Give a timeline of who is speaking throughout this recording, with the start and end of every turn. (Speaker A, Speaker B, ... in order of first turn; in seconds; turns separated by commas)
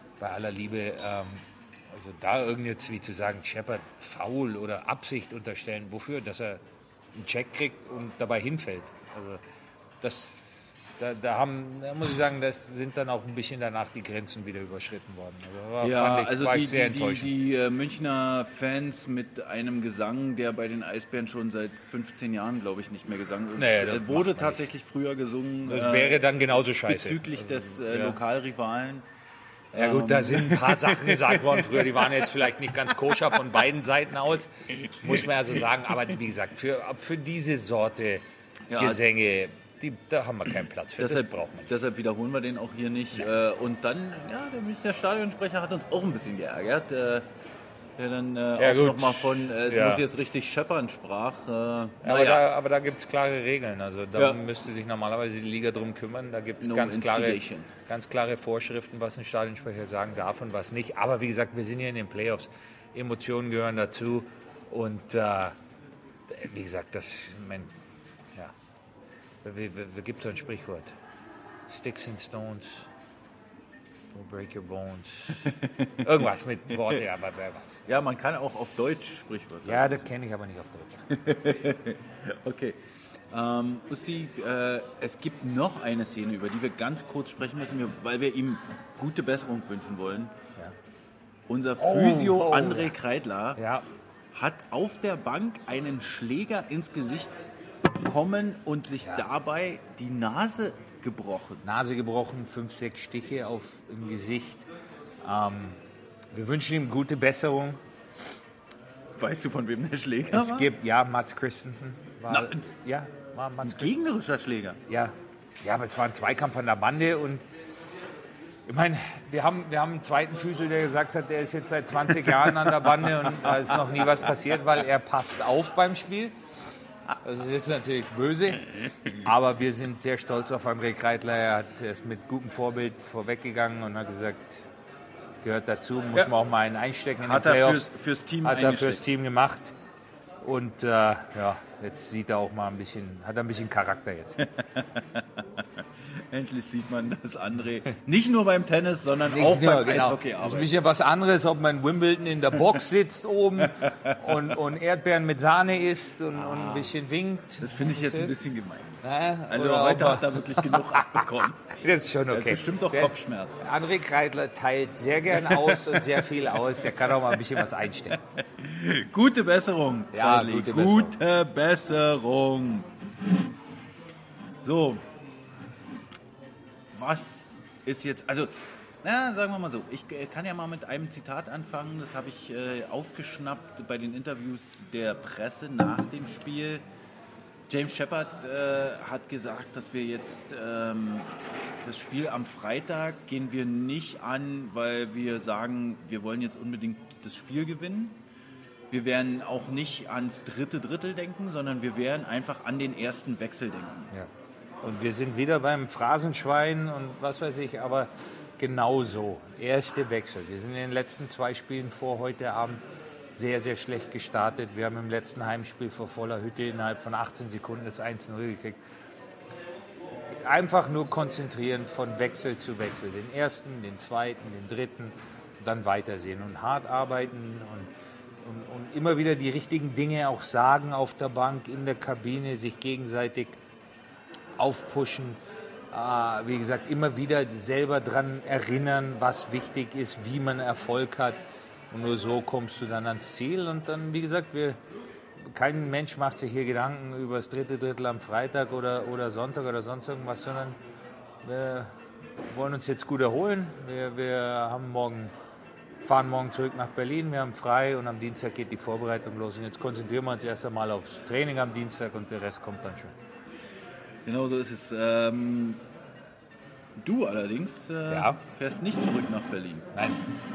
Speaker A: 0.2-6.6, Speaker A: 7.2-9.4, Speaker A: 10.0-17.3, Speaker B: 15.8-26.2, Speaker A: 23.6-24.6, Speaker A: 25.7-28.2, Speaker B: 26.9-29.1, Speaker B: 29.7-32.2, Speaker A: 29.7-38.2, Speaker B: 34.9-35.2, Speaker B: 38.7-39.0, Speaker A: 38.8-41.7, Speaker B: 41.0-47.3, Speaker B: 48.0-52.4, Speaker A: 48.6-50.0, Speaker A: 52.0-65.6, Speaker B: 56.6-57.7, Speaker A: 66.3-67.7, Speaker A: 69.4-70.9, Speaker A: 71.7-72.9, Speaker A: 74.1-77.8, Speaker B: 75.5-76.0, Speaker B: 77.9-80.1, Speaker A: 79.7-81.2, Speaker B: 81.1-90.3, Speaker B: 91.5-93.6, Speaker A: 91.8-93.0, Speaker A: 93.6-93.9, Speaker B: 94.3-97.3, Speaker B: 97.9-101.6, Speaker A: 101.6-104.7, Speaker A: 105.2-105.8, Speaker A: 106.3-107.8, Speaker B: 109.2-110.7, Speaker A: 110.3-113.9, Speaker B: 112.3-112.7, Speaker B: 113.6-114.8, Speaker A: 114.9-117.4, Speaker A: 118.7-126.3, Speaker B: 123.3-123.7, Speaker A: 127.2-134.7, Speaker A: 135.4-137.9, Speaker B: 137.2-139.1, Speaker A: 138.4-139.7, Speaker A: 140.4-144.4, Speaker B: 144.4-150.7, Speaker A: 149.2-158.4, Speaker B: 153.6-154.6, Speaker B: 156.3-156.9, Speaker B: 157.6-161.7, Speaker A: 159.0-168.2, Speaker B: 162.3-163.6, Speaker B: 165.3-166.2, Speaker B: 167.0-167.4, Speaker B: 168.2-172.9, Speaker A: 170.1-171.2, Speaker B: 174.6-175.1, Speaker B: 176.9-186.8, Speaker B: 187.7-198.2, Speaker B: 198.9-204.1, Speaker A: 204.8-212.8, Speaker A: 213.3-218.8, Speaker A: 220.4-227.9, Speaker A: 228.4-233.6, Speaker A: 234.6-235.4, Speaker A: 235.9-241.4, Speaker A: 241.9-244.8, Speaker A: 245.4-250.8, Speaker A: 251.4-251.9, Speaker A: 252.5-255.3, Speaker A: 256.0-263.1, Speaker B: 264.2-265.8, Speaker B: 267.0-269.9, Speaker A: 268.1-268.4, Speaker A: 269.9-270.2